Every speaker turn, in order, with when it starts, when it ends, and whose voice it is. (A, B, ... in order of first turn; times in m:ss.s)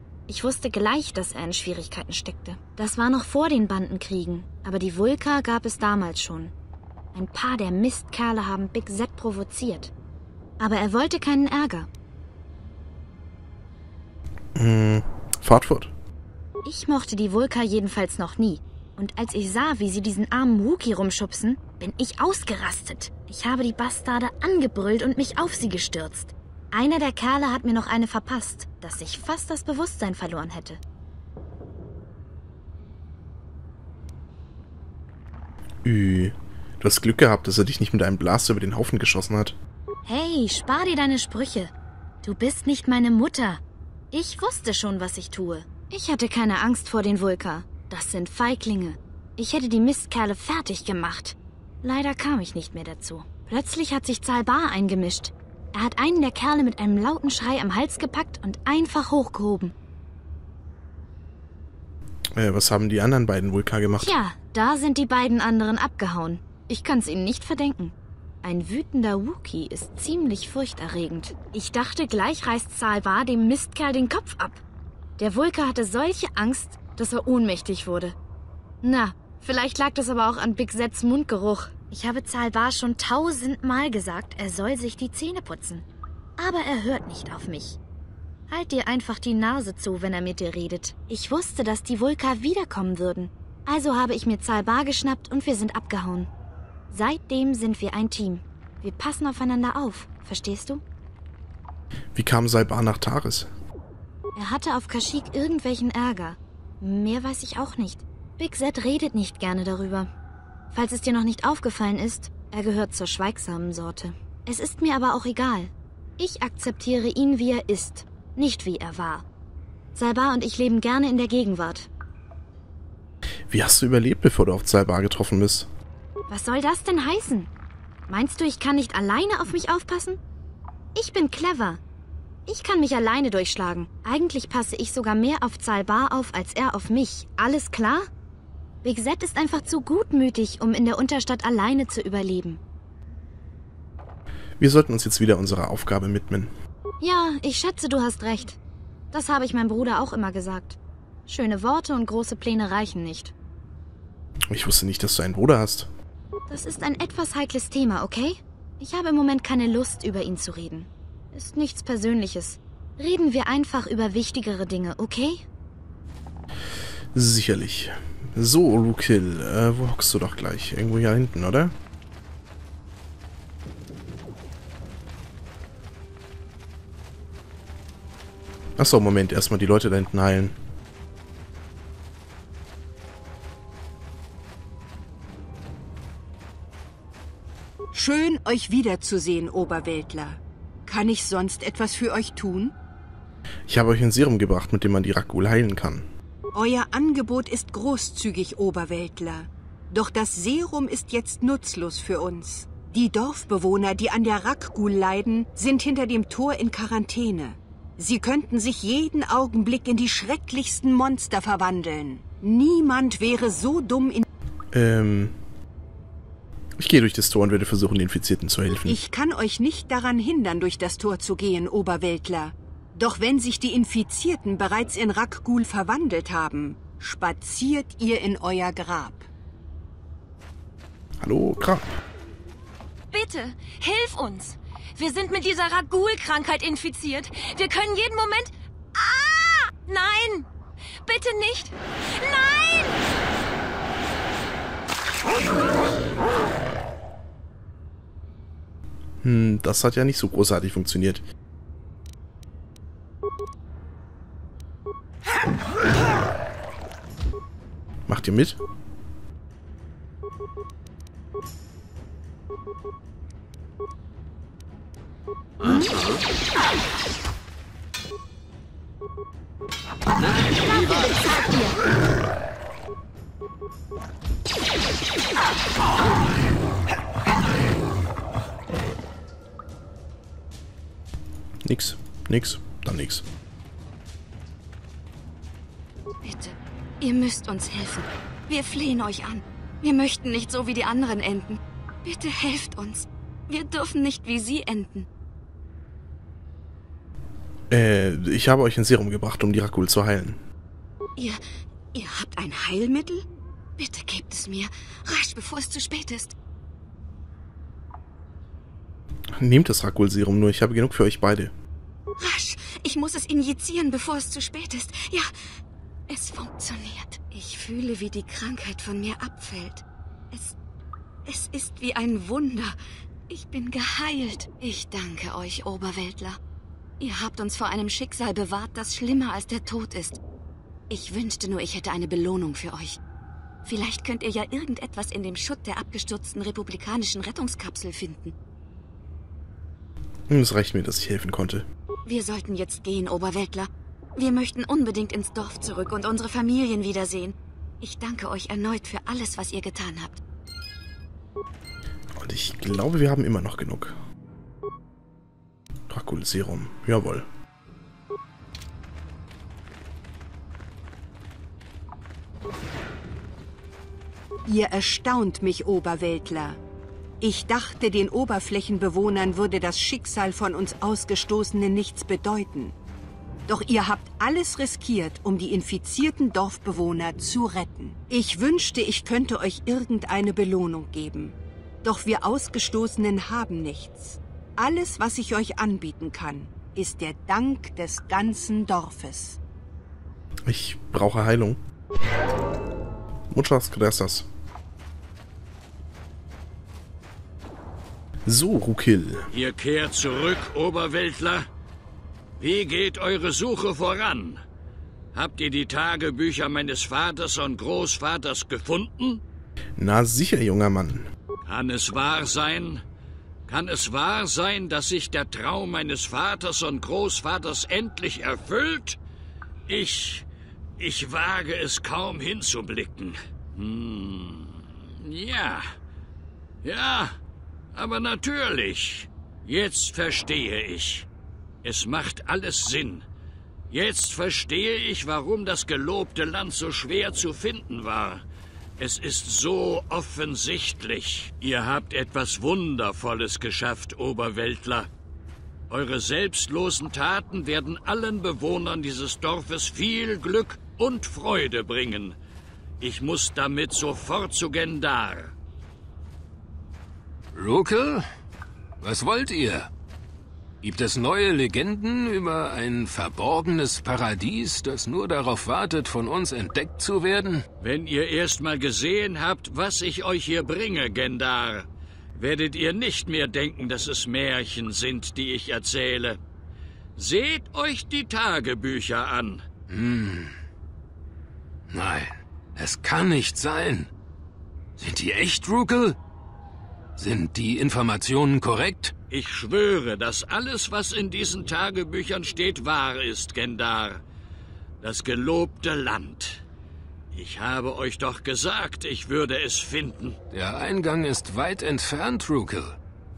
0:00.3-0:06.5 A
0:07.1-0:09.9 A
0:10.6-0:11.9 A
0:14.6-0:15.9 B
0:16.6-0:30.8 A
0:35.8-0:39.6 B
0:40.0-0:41.7 A
0:42.2-0:43.6 A
0:44.1-0:59.7 A
1:02.4-1:04.2 B
1:04.0-1:14.6 A
1:15.2-1:18.2 A
1:18.8-1:25.8 A
1:26.4-1:27.8 A
1:28.5-1:36.3 A
1:36.9-1:40.8 A
1:42.2-1:43.5 B
1:44.4-1:50.1 A
1:50.7-1:59.2 A
2:00.0-2:01.9 A
2:03.5-2:05.7 B
2:06.3-2:07.5 A
2:08.1-2:10.2 A
2:11.0-2:11.8 A
2:12.5-2:18.1 A
2:18.8-2:22.6 A
2:24.6-2:26.5 B
2:27.0-2:28.6 A
2:29.1-2:33.3 A
2:34.5-2:35.9 B
2:36.5-2:45.4 A
2:47.1-2:51.7 B
2:58.8-3:00.6 B
3:07.9-3:12.7 C
3:13.7-3:16.1 B
3:16.5-3:34.2 C
3:34.7-3:35.4 B
3:36.8-3:39.0 B
3:38.9-3:49.3 C
3:51.2-3:52.0 B
3:53.1-4:00.5 D
4:01.0-4:03.0 D
4:09.2-4:11.2 B
4:18.1-4:18.6 B
4:25.6-4:26.0 E
4:41.6-4:43.2 B
4:46.2-4:55.1 F
4:57.7-5:00.4 B
5:01.9-5:03.2 F
5:03.8-5:06.4 F
5:09.4-5:11.5 B
5:12.2-5:15.3 F
5:16.1-5:20.6 F
5:21.3-5:22.8 F
5:23.3-5:26.4 F
5:27.0-5:30.2 F
5:30.9-5:33.0 F
5:33.6-5:38.3 F
5:40.3-5:41.7 B
5:42.1-5:50.2 F
5:52.2-5:54.0 B
5:55.9-5:57.3 B
6:04.5-6:06.6 C
6:07.2-6:12.8 C
6:13.5-6:29.4 C
6:30.5-6:31.6 B
6:33.3-6:34.3 B
6:38.3-6:39.3 B
6:39.3-6:41.5 G
6:42.4-6:44.4 G
6:45.1-6:49.2 G
6:49.8-6:51.1 B
6:51.4-6:52.8 G
6:53.5-6:59.0 G
6:59.7-7:00.3 G
7:00.8-7:05.6 G
7:06.6-7:07.2 G
7:07.7-7:11.1 G
7:11.6-7:13.0 G
7:13.7-7:18.2 G
7:18.8-7:24.9 G
7:25.7-7:32.2 G
7:32.8-7:35.3 G
7:37.3-7:38.1 E
7:38.8-7:39.7 E
7:40.6-7:47.4 E
7:47.6-7:56.2 G
7:57.0-7:59.4 G
7:59.7-8:00.4 E
8:01.7-8:03.9 E
8:04.8-8:06.0 E
8:07.0-8:08.9 E
8:09.1-8:14.0 G
8:14.8-8:16.4 G
8:17.1-8:20.2 G
8:20.3-8:22.8 E